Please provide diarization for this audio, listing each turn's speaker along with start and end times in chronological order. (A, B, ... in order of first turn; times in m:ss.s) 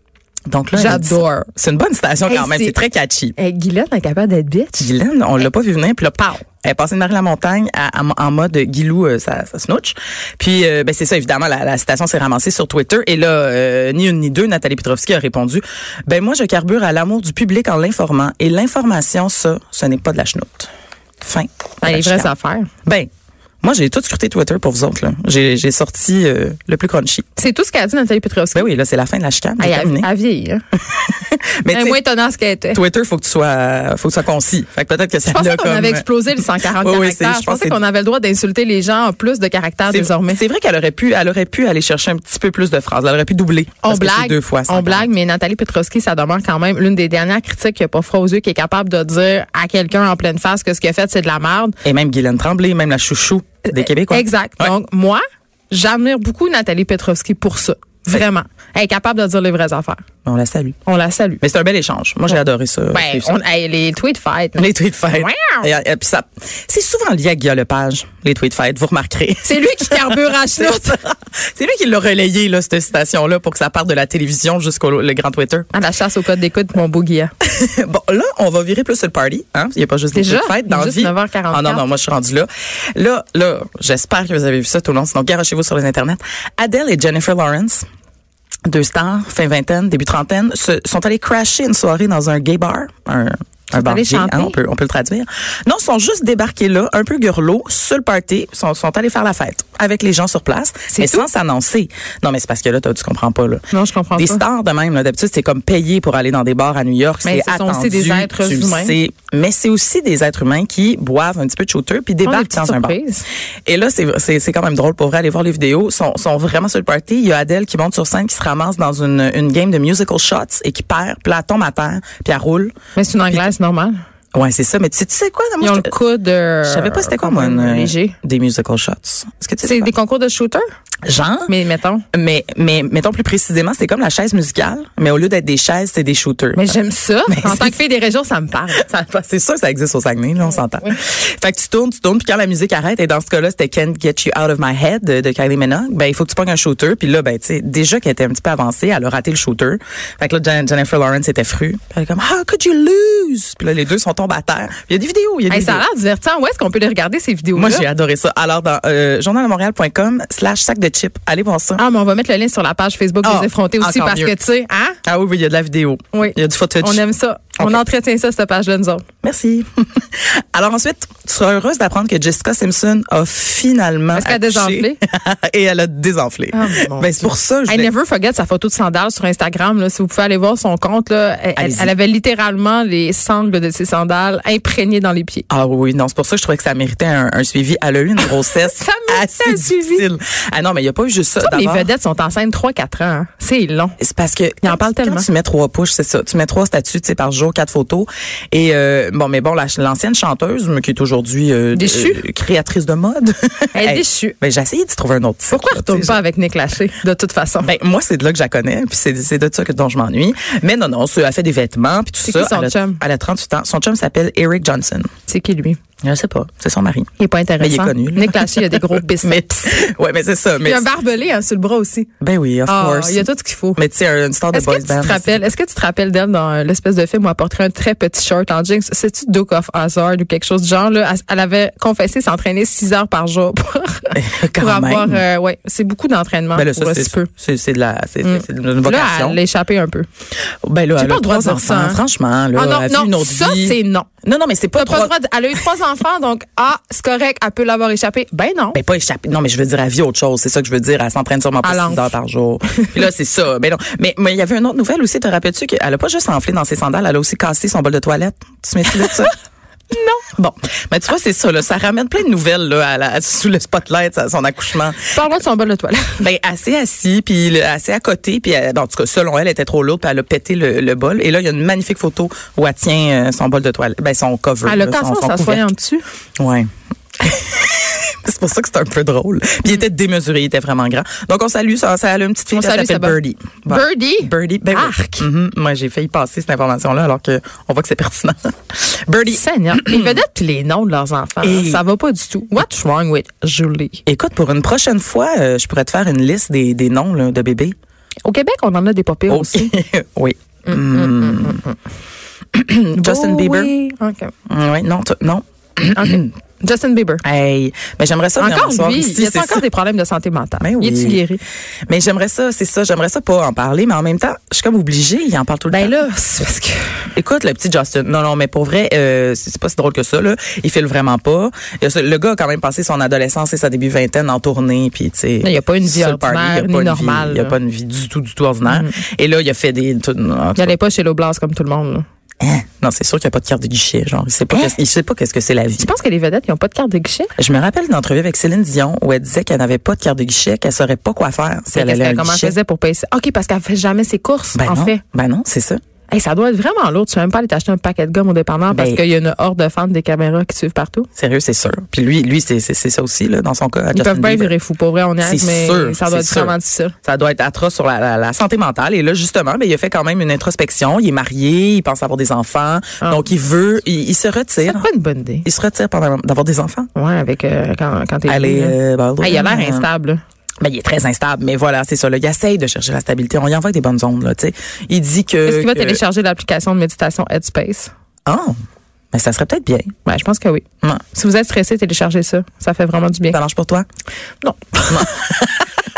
0:00.5-0:03.4 A
0:00.7-0:01.5 B
0:02.2-0:02.8 B
0:03.4-0:04.9 B
0:04.8-0:20.7 A
0:21.2-0:22.3 A
0:21.8-0:22.7 B
0:23.6-0:27.2 A
0:27.4-0:28.7 B
0:28.5-0:30.1 A
0:29.6-0:30.6 B
0:30.9-0:32.0 A
0:31.7-0:32.8 B
0:32.7-0:37.8 A
0:35.3-0:40.4 B
0:39.9-0:45.1 A
0:43.8-0:51.8 B
0:51.8-0:54.7 A
0:53.6-1:00.0 B
1:00.2-1:00.8 A
1:00.8-1:01.4 B
1:01.4-1:03.4 A
1:02.9-1:05.6 B
1:04.5-1:15.7 A
1:09.4-1:11.0 B
1:15.7-1:17.3 B
1:17.4-1:27.8 A
1:20.1-1:21.8 B
1:28.6-1:53.0 A
1:33.7-1:34.6 B
1:40.9-1:41.2 B
1:43.7-1:44.4 B
1:47.2-1:49.0 B
1:52.2-1:53.2 B
1:53.7-2:02.7 A
2:02.9-2:04.0 B
2:04.3-2:05.9 A
2:05.6-2:08.2 B
2:06.6-2:09.9 A
2:09.6-2:10.6 B
2:11.0-2:11.5 A
2:11.5-2:12.0 B
2:12.1-2:17.8 A
2:16.6-2:18.8 B
2:18.7-2:35.8 A
2:35.5-2:37.9 B
2:37.5-2:41.8 A
2:41.8-2:45.0 B
2:43.2-2:44.4 A
2:45.0-2:47.0 A
2:46.1-2:49.0 B
2:49.2-2:57.9 A
2:54.1-2:55.0 B
2:56.5-3:05.4 B
3:01.6-3:01.9 A
3:05.5-3:11.9 A
3:08.3-3:10.0 B
3:11.4-3:14.0 B
3:14.0-3:26.2 A
3:14.6-3:15.3 B
3:21.7-3:22.2 B
3:23.7-3:24.4 B
3:25.5-3:27.7 B
3:27.6-3:35.1 A
3:32.2-3:33.0 B
3:35.3-3:35.8 B
3:36.0-3:40.9 A
3:37.2-3:39.7 B
3:40.6-3:42.1 B
3:42.2-3:45.5 A
3:42.6-3:43.8 B
3:44.5-3:57.3 B
3:54.1-3:55.2 A
3:56.5-3:59.4 A
3:58.2-4:00.1 B
4:00.6-4:05.1 A
4:01.0-4:02.0 B
4:02.5-4:04.1 B
4:04.7-4:08.8 B
4:08.7-4:19.3 A
4:11.6-4:12.1 B
4:12.7-4:13.0 B
4:19.9-4:20.2 B
4:20.2-4:25.1 A
4:25.1-4:26.2 B
4:26.2-4:35.6 A
4:34.6-4:36.0 B
4:36.4-4:36.7 A
4:37.2-4:50.2 A
4:42.5-4:45.2 B
4:49.3-4:54.0 B
4:51.4-4:51.8 A
4:54.0-4:57.7 A
4:58.2-4:59.7 B
4:59.3-5:01.6 A
5:00.7-5:01.8 B
5:02.5-5:03.7 A
5:02.9-5:04.3 B
5:04.5-5:06.3 A
5:05.9-5:07.2 B
5:07.2-5:09.6 A
5:08.4-5:11.4 B
5:10.6-5:11.2 A
5:11.9-5:16.0 A
5:15.7-5:17.0 B
5:17.1-5:30.8 A
5:25.4-5:27.6 B
5:28.6-5:29.0 B
5:30.6-5:32.0 B
5:32.4-5:35.9 A
5:35.8-5:37.3 B
5:37.4-5:42.6 A
5:41.7-5:45.0 B
5:44.5-5:45.8 A
5:46.1-5:51.1 B
5:48.7-5:49.0 A
5:51.2-5:54.5 A
5:53.9-5:56.9 B
5:55.2-6:04.9 A
6:04.6-6:05.4 B
6:05.4-6:06.9 A
6:06.9-6:10.2 B
6:08.3-6:09.8 A
6:10.6-6:16.0 A
6:15.4-6:17.9 B
6:18.2-6:18.5 A
6:19.1-6:19.9 A
6:20.0-6:23.4 B
6:23.3-6:23.8 A
6:24.4-6:25.1 B
6:24.9-6:25.7 A